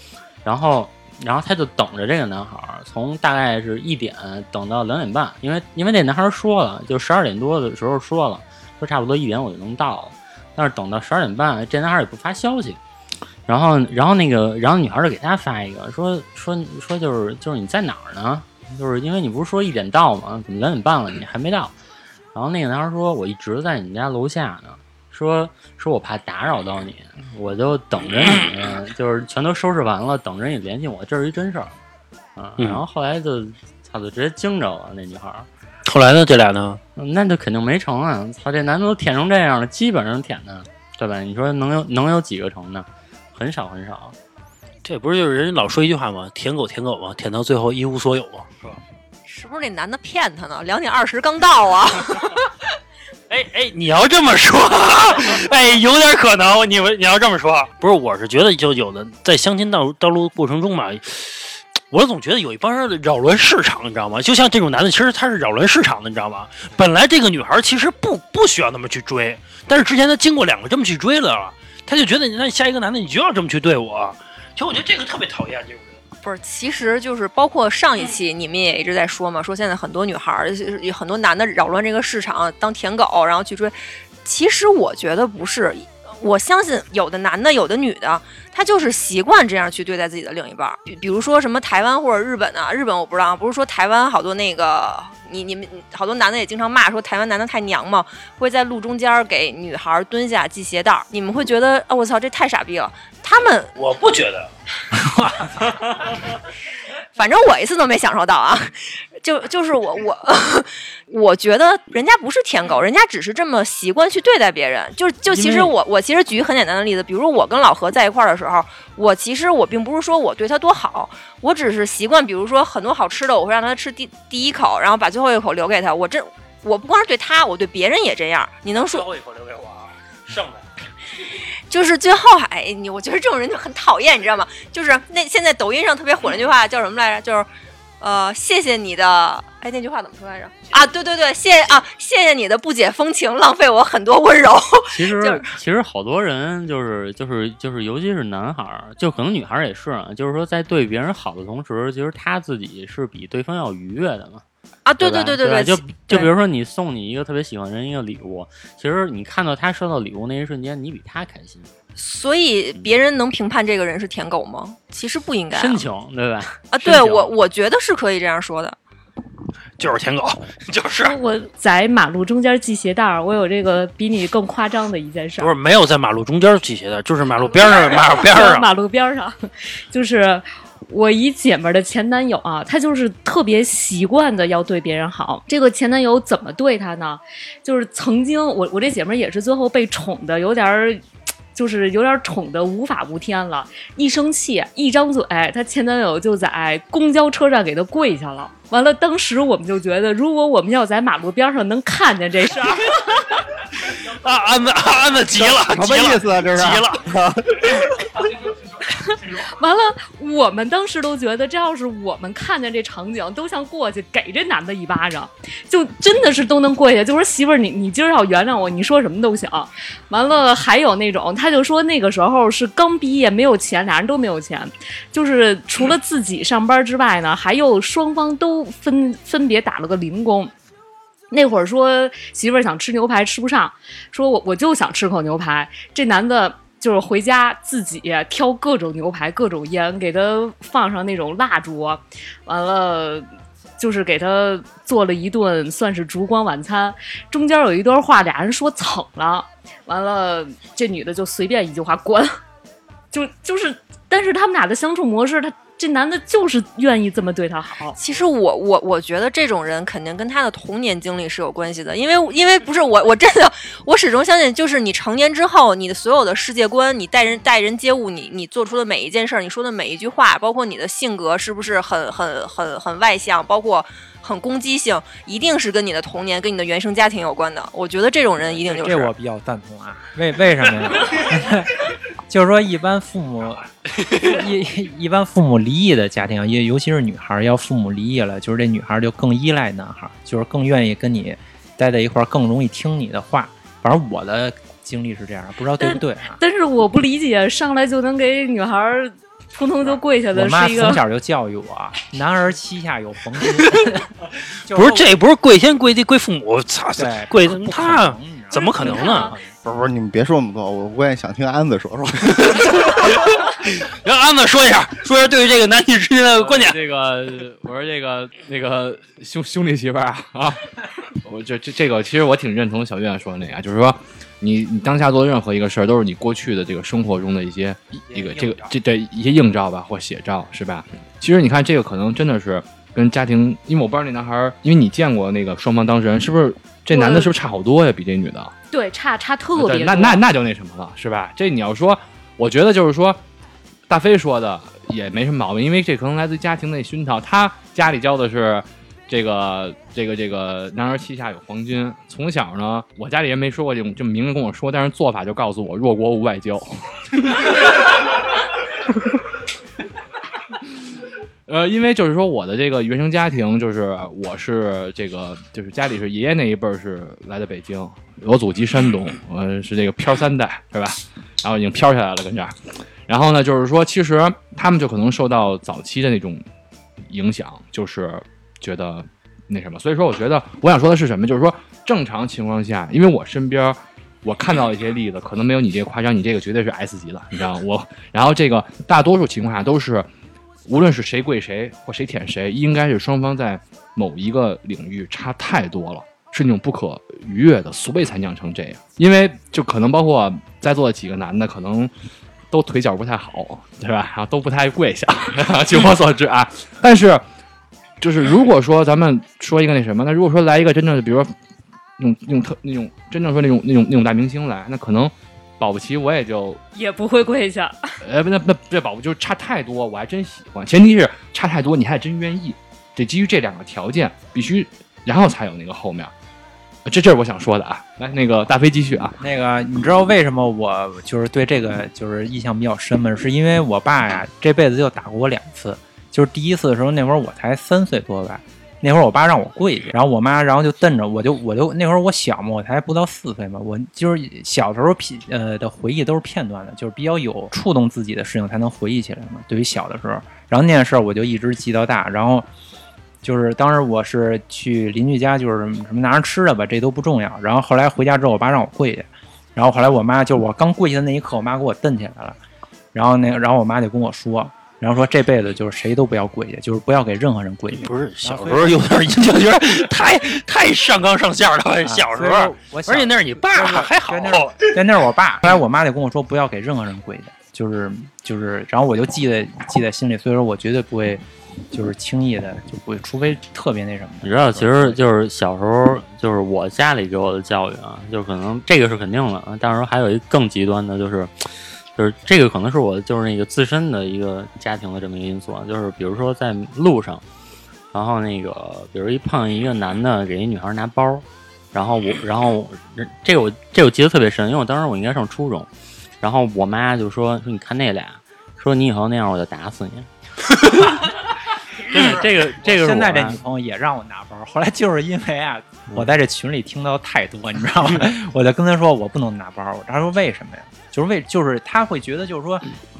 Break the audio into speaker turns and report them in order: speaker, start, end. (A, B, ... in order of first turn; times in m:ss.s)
0:00.4-0:12.8 A
0:13.5-0:21.7 A
0:22.3-0:31.8 A
0:32.4-0:35.5 A
0:32.6-0:32.8 B
0:35.8-0:36.8 B
0:37.0-0:44.2 A
0:44.8-0:48.8 B
0:49.2-0:52.4 C
0:53.3-1:16.0 B
1:16.2-1:43.7 C
1:43.8-1:44.5 B
1:47.2-2:09.1 C
1:55.3-1:55.7 A
2:08.7-2:10.6 B
2:11.7-2:17.5 C
2:18.0-2:25.5 C
2:24.9-2:34.4 A
2:34.8-2:36.3 C
2:35.0-2:41.7 A
2:42.0-2:45.8 C
2:45.5-2:47.3 A
2:46.7-2:48.8 C
2:49.8-2:51.2 B
2:51.0-2:55.5 D
2:55.4-2:58.7 B
2:57.4-2:59.4 D
2:59.9-3:11.0 D
3:11.5-3:23.2 D
3:23.8-3:27.1 B
3:25.3-3:27.7 E
3:29.0-3:50.5 D
3:51.3-4:03.3 D
4:03.8-4:12.3 D
4:13.1-4:18.0 D
4:18.0-4:39.1 C
4:38.4-4:56.4 F
4:55.8-5:01.0 D
4:59.8-5:04.1 F
5:04.7-5:05.2 F
5:04.7-5:09.4 B
5:07.0-5:09.5 F
5:08.5-5:09.3 D
5:09.6-5:12.6 E
5:12.3-5:16.8 B
5:16.3-5:38.5 G
5:28.1-5:28.7 F
5:36.9-5:37.3 D
5:38.7-5:40.2 D
5:39.5-5:43.2 G
5:43.9-5:58.0 G
6:01.4-6:16.4 G
6:17.1-6:30.1 G
6:30.6-6:41.9 G
6:42.5-6:47.2 G
6:48.0-6:51.3 G
6:52.0-6:56.6 G
6:56.7-6:58.0 D
6:58.0-7:06.1 G
7:06.8-7:09.2 G
7:09.2-7:32.5 F
7:33.2-7:42.4 F
7:42.9-7:48.8 F
7:47.7-7:54.7 B
7:51.8-8:05.0 F
8:04.2-8:17.2 A
8:17.9-8:25.7 A
8:26.2-8:33.4 A
8:31.9-8:42.7 F